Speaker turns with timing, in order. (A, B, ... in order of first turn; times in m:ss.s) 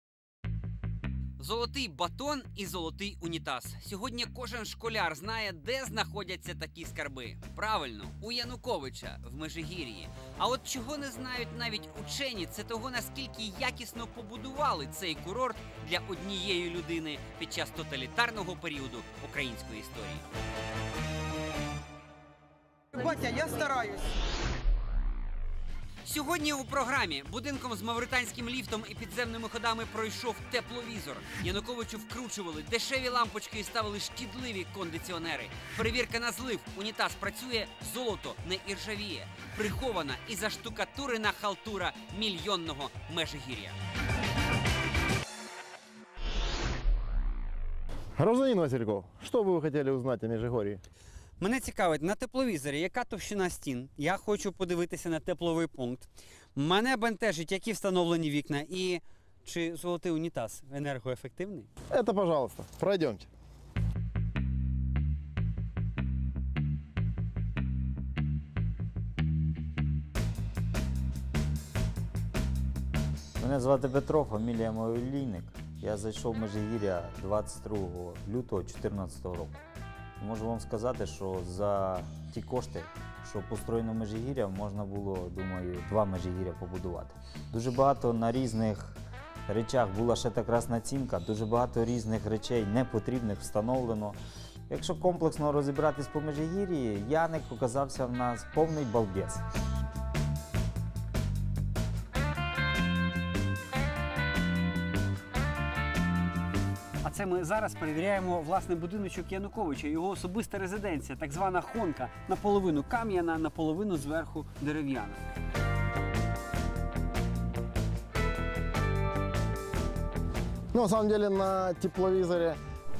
0:01.4-0:20.2 A
0:23.0-0:23.6 A
0:26.0-0:43.8 A
0:48.2-0:50.8 B
0:51.4-1:01.7 A
1:01.9-1:03.3 B
1:13.4-1:19.6 C
1:20.2-1:39.4 C
1:47.0-1:55.2 A
2:00.7-2:02.6 B